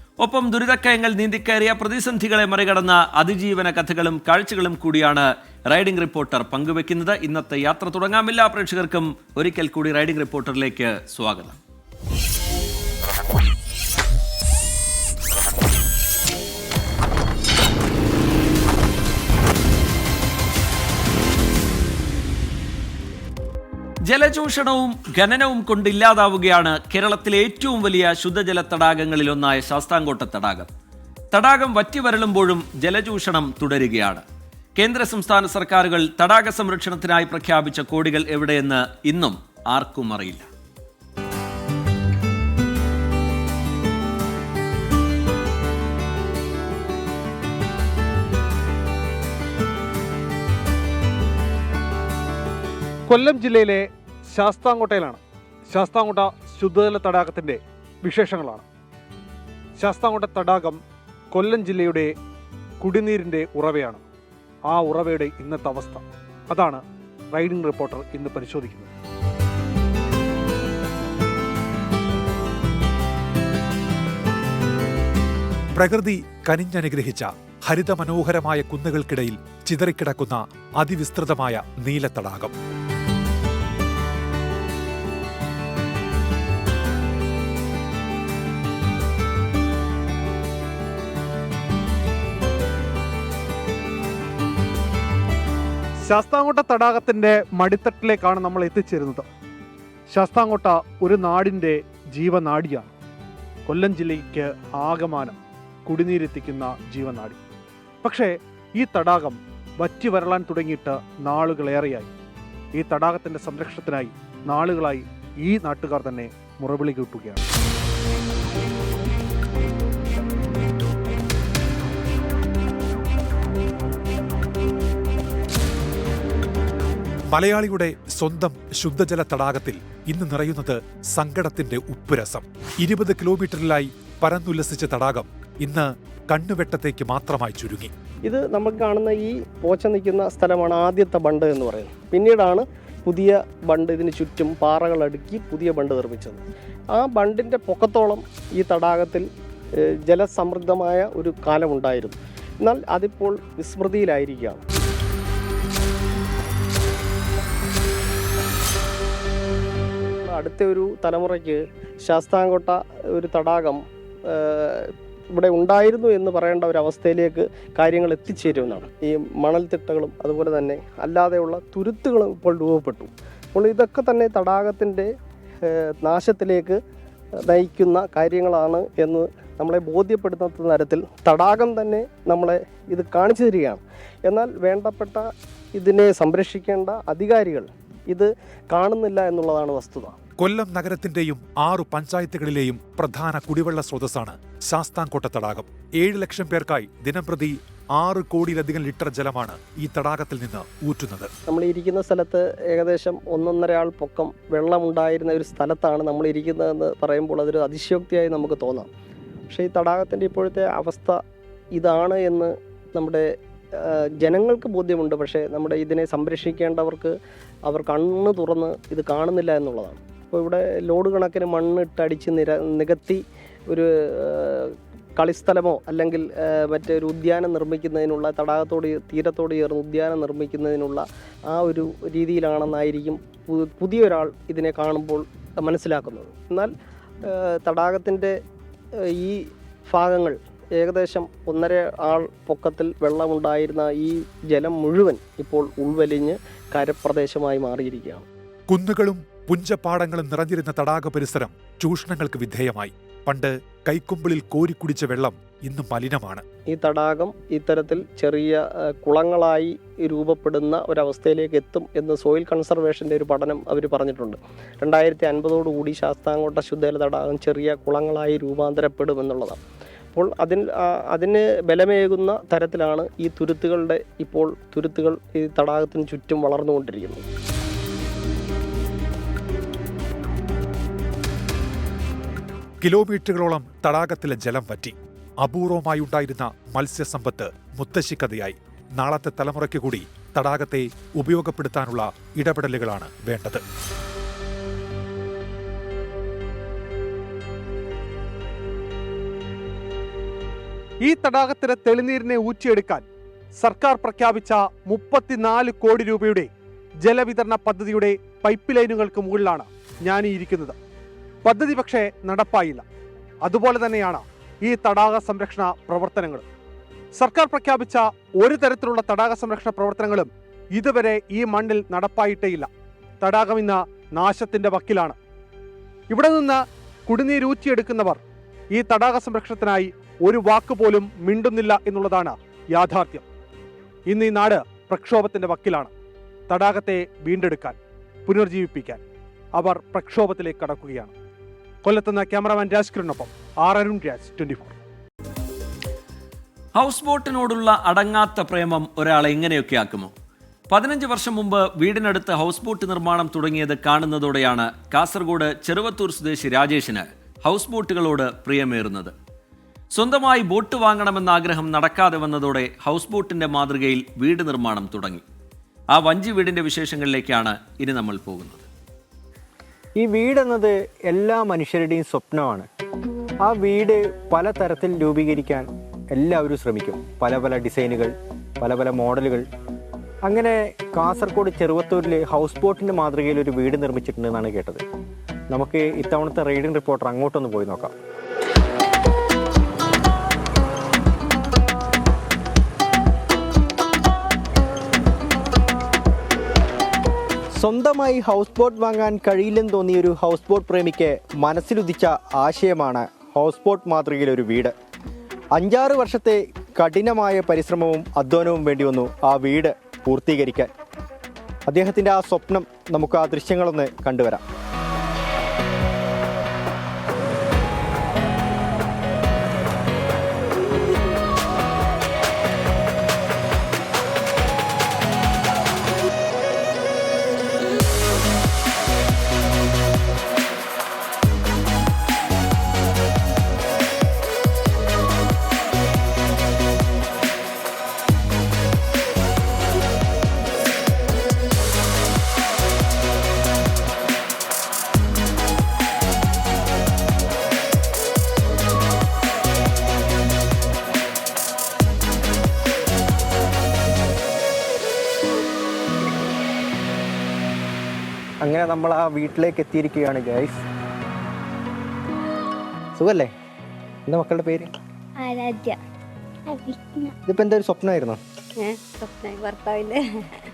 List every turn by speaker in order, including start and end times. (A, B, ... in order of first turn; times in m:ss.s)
0:00.2-0:11.6 A
0:24.0-0:30.7 A
0:31.3-0:34.2 A
0:34.8-0:40.4 A
0:53.1-0:55.2 B
0:55.7-0:58.6 B
0:59.8-1:00.8 B
1:01.3-1:02.1 B
1:02.8-1:04.0 B
1:04.7-1:06.8 B
1:07.3-1:08.9 B
1:15.7-1:22.5 C
1:36.1-1:39.2 B
1:40.1-1:42.9 B
1:43.7-1:47.4 B
1:48.0-1:52.1 B
1:52.8-1:57.4 B
2:07.3-2:17.9 C
2:18.2-2:29.2 D
2:30.0-2:34.6 D
2:40.2-2:43.8 D
2:44.3-2:55.0 D
2:55.7-2:56.8 D
2:57.5-3:10.2 D
3:10.4-3:21.3 C
3:21.5-3:28.9 D
3:29.5-3:31.2 D
3:31.7-3:33.2 D
3:34.2-3:37.1 D
3:37.6-3:56.7 D
3:57.3-3:58.3 D
3:59.2-4:08.2 D
4:08.7-4:16.4 C
4:16.7-4:29.6 D
4:30.1-4:37.2 D
4:42.8-4:53.6 C
5:01.0-5:03.0 B
5:03.6-5:06.5 B
5:07.0-5:10.7 B
5:11.4-5:12.8 B
5:13.4-5:16.4 B
5:17.1-5:22.7 B
5:23.2-5:25.2 B
5:26.1-5:28.2 B
5:28.7-5:33.2 B
5:34.1-5:35.9 B
5:36.5-5:37.8 B
5:38.3-5:39.0 B
5:39.6-5:41.1 B
5:41.8-5:44.7 B
5:46.7-5:50.1 A
5:50.7-5:59.1 A
5:59.9-6:05.2 A
6:05.9-6:08.6 A
6:10.0-6:12.7 E
6:13.5-6:19.4 E
6:20.3-6:24.8 E
6:25.5-6:27.9 E
6:37.6-6:44.7 E
6:45.6-6:50.7 E
6:51.7-6:54.4 E
7:38.4-7:40.6 E
7:43.0-7:43.3 E
7:44.1-7:44.8 E
7:45.2-7:45.8 F
7:46.5-7:47.1 F
7:47.3-7:48.2 E
7:48.6-7:50.4 F